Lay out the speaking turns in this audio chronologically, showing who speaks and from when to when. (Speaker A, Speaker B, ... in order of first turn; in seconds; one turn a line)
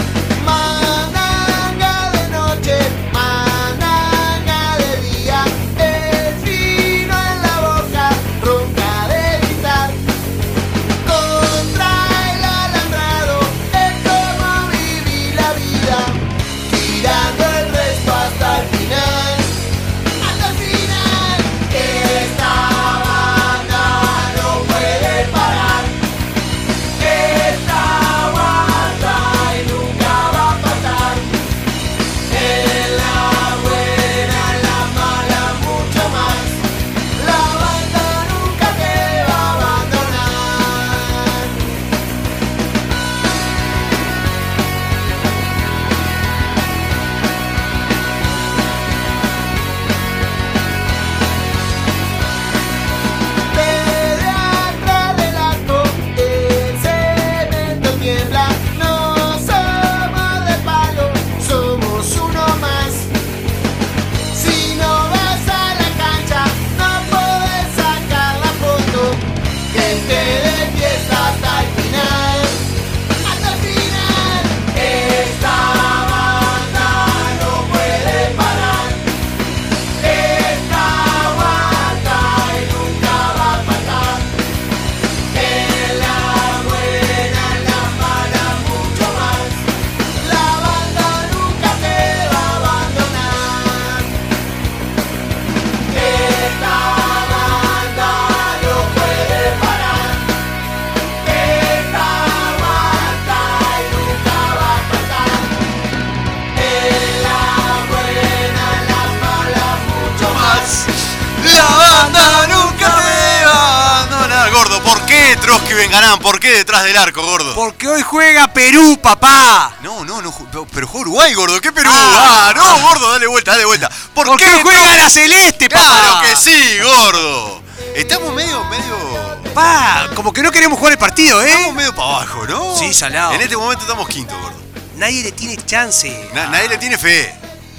Speaker A: 0.3-10.0
Speaker A: 11.0-19.6
Speaker A: 20.2-26.0
Speaker A: 27.0-31.4
Speaker A: 32.3-36.6
Speaker A: 37.1-41.7
Speaker A: 53.5-63.1
Speaker A: 64.3-72.7
Speaker A: 73.2-79.1
Speaker A: 80.0-84.3
Speaker A: 85.3-89.6
Speaker A: 90.2-94.1
Speaker A: 95.9-100.3
Speaker A: 101.2-105.5
Speaker A: 106.5-110.9
Speaker B: 110.3-110.7
Speaker B: 111.3-117.6
Speaker A: 111.8-113.5
Speaker C: 117.5-119.8
Speaker B: 119.8-125.2
Speaker C: 121.8-122.9
Speaker C: 124.2-126.5
Speaker B: 125.7-129.6
Speaker C: 129.5-131.8
Speaker B: 131.4-134.7
Speaker C: 132.7-133.5
Speaker C: 134.9-136.8
Speaker B: 136.3-137.4